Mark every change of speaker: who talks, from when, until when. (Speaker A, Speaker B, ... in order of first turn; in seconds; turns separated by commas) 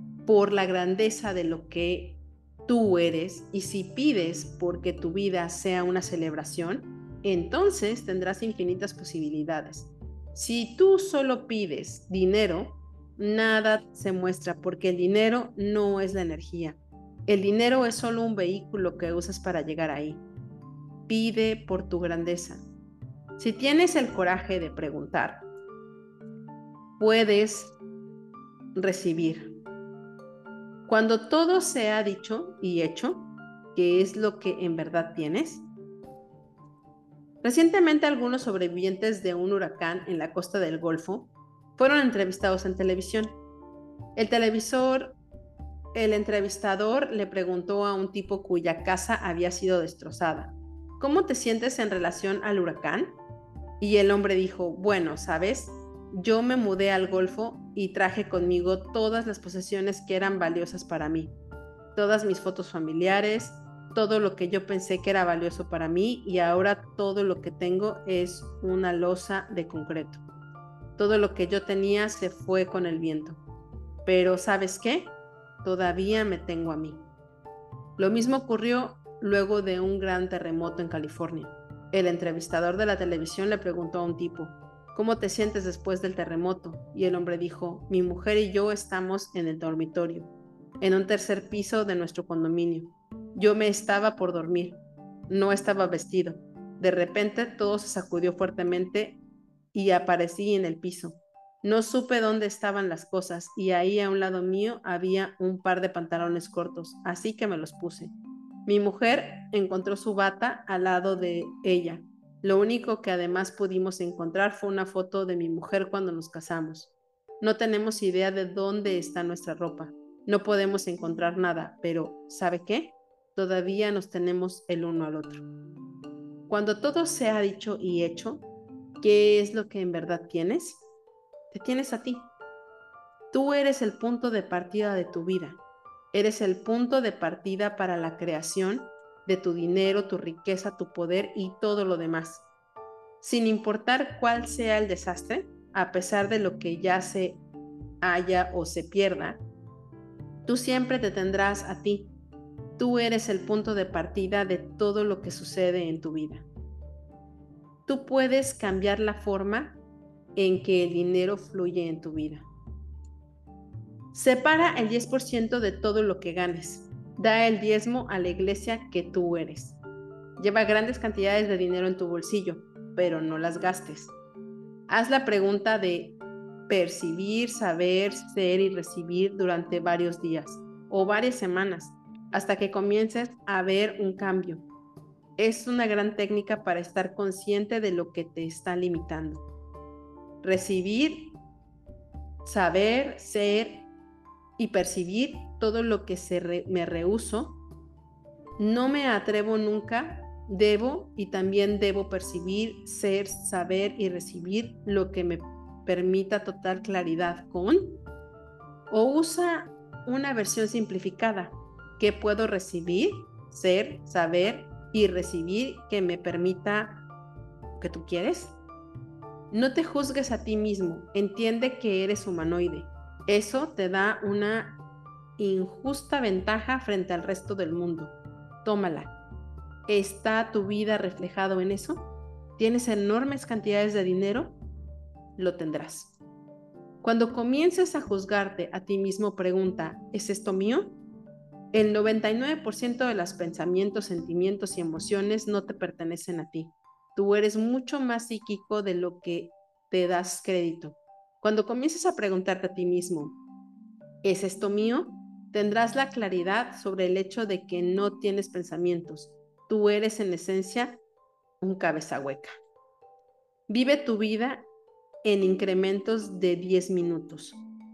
Speaker A: 0.3-20.2, Speaker A: 21.1-22.6, Speaker A: 23.4-25.4, Speaker A: 27.0-27.8, Speaker A: 28.8-29.5, Speaker A: 30.9-35.7, Speaker A: 37.4-43.4, Speaker A: 44.2-45.2, Speaker A: 45.9-53.2, Speaker A: 53.8-61.3, Speaker A: 62.0-70.2, Speaker A: 71.0-73.4, Speaker A: 74.0-77.1, Speaker A: 78.0-99.2, Speaker A: 99.7-108.2, Speaker A: 108.7-125.4, Speaker A: 126.5-128.5, Speaker A: 129.0-130.8, Speaker A: 131.5-132.3, Speaker A: 133.3-135.6, Speaker A: 136.1-142.5, Speaker A: 143.2-147.4, Speaker A: 148.0-149.4, Speaker A: 150.5-152.1, Speaker A: 152.8-156.5, Speaker A: 157.9-159.8, Speaker A: 160.4-162.5, Speaker A: 164.1-169.8, Speaker A: 170.4-174.1, Speaker A: 174.9-184.7, Speaker A: 185.4-189.4, Speaker A: 190.4-191.4, Speaker A: 192.4-193.9, Speaker A: 194.6-197.6, Speaker A: 198.6-208.0, Speaker A: 208.9-217.1, Speaker A: 217.8-218.6, Speaker A: 219.5-224.8, Speaker A: 225.4-229.1, Speaker A: 229.9-234.6, Speaker A: 235.4-236.2, Speaker A: 237.0-241.0, Speaker A: 241.7-253.4, Speaker A: 254.2-261.0, Speaker A: 261.6-262.5, Speaker A: 263.7-264.6, Speaker A: 265.2-267.6